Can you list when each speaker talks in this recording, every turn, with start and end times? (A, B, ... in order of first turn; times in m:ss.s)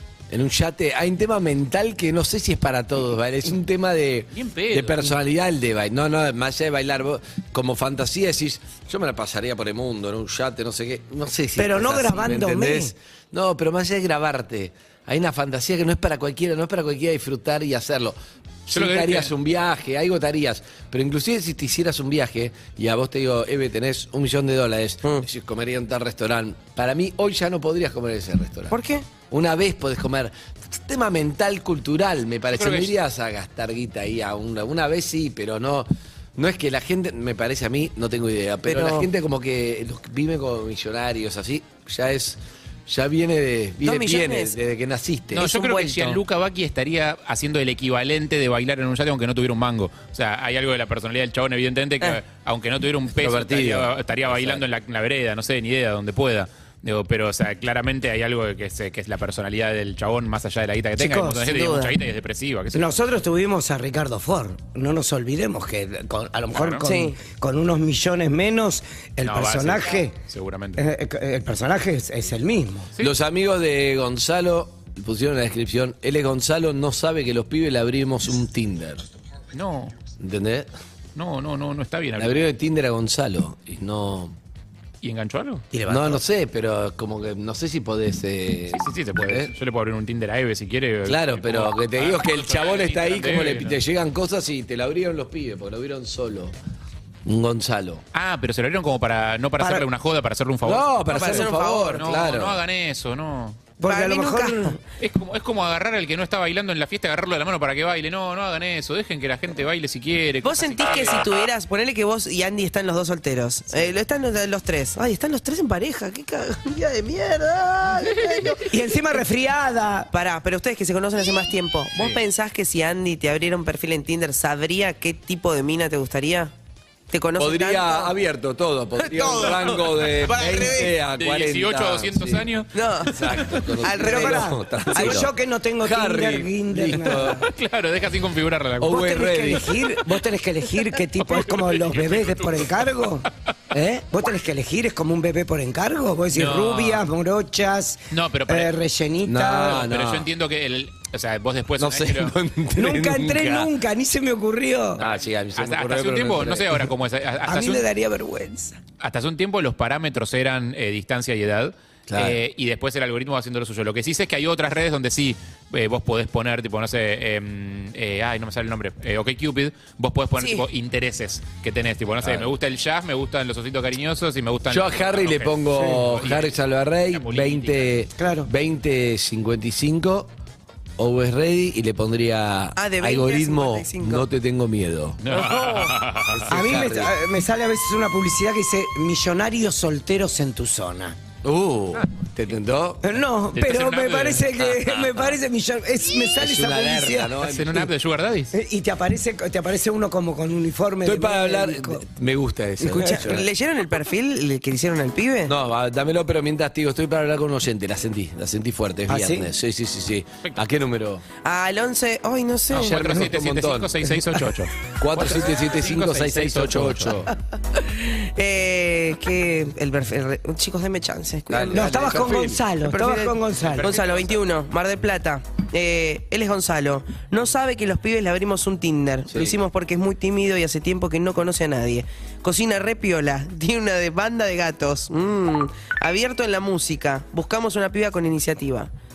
0:00.3-0:28.8 A
0:04.3-0:05.1 B
0:11.6-0:12.9 C
0:18.7-0:19.3 B
0:28.7-0:29.1 D
0:29.3-0:45.5 A
0:32.5-0:32.9 B
0:38.6-0:39.1 D
0:43.8-0:44.5 D
0:45.3-1:03.0 B
0:45.4-0:46.2 D
0:53.2-0:54.6 A
1:01.0-1:01.4 C
1:01.4-1:02.0 D
1:02.7-1:10.2 C
1:06.5-1:06.8 B
1:06.8-1:07.2 D
1:09.2-1:10.8 B
1:10.8-1:12.9 C
1:13.0-1:19.0 A
1:19.5-1:19.9 B
1:20.2-1:20.7 A
1:21.2-1:22.4 B
1:22.2-1:24.4 A
1:25.0-1:25.7 B
1:25.7-1:26.2 C
1:25.8-1:29.5 A
1:28.7-1:33.8 B
1:31.0-1:36.5 A
1:37.2-1:38.0 A
1:38.1-1:43.6 B
1:39.6-1:39.8 C
1:40.6-1:42.6 A
1:41.1-1:42.0 D
1:43.8-1:44.8 C
1:43.8-1:44.8 D
1:45.0-1:51.3 B
1:50.4-1:58.8 D
1:58.7-2:00.1 C
2:00.1-2:06.5 D
2:01.9-2:02.2 B
2:07.1-2:08.1 D
2:07.4-2:12.5 A
2:09.0-2:10.9 D
2:11.2-2:13.6 B
2:12.7-2:15.2 D
2:13.0-2:17.4 A
2:14.0-2:17.4 C
2:17.1-2:19.0 B
2:18.8-2:19.9 A
2:18.8-2:29.8 C
2:21.2-2:22.7 B
2:23.7-2:24.0 A
2:26.3-2:27.0 B
2:28.1-2:28.7 B
2:29.2-2:30.3 A
2:29.6-2:32.4 B
2:31.8-2:33.7 A
2:32.8-2:35.0 C
2:35.0-2:36.9 A
2:35.0-2:37.8 B
2:37.4-2:38.8 C
2:39.0-2:56.5 B
2:42.1-2:42.4 A
2:50.4-2:50.6 D
2:52.2-2:52.5 A
2:54.7-3:00.3 A
2:57.1-2:58.0 B
2:58.2-2:58.5 C
3:01.0-3:05.6 A
3:02.8-3:04.2 D
3:05.2-3:06.5 B
3:06.3-3:07.1 A
3:06.5-3:11.2 C
3:11.4-3:13.1 A
3:13.0-3:17.3 C
3:13.5-3:15.3 B
3:16.4-3:17.9 A
3:17.4-3:18.5 B
3:18.5-3:22.0 C
3:21.0-3:23.4 A
3:22.8-3:23.4 C
3:23.0-3:25.5 D
3:25.4-3:31.2 A
3:29.1-3:29.5 C
3:31.4-3:33.3 D
3:32.7-3:37.3 B
3:32.7-3:34.3 A
3:35.0-3:37.3 A
3:37.7-3:42.3 D
3:41.5-3:42.6 A
3:41.7-3:43.9 C
3:42.8-3:58.9 D
3:43.7-3:44.4 B
3:49.3-3:49.6 A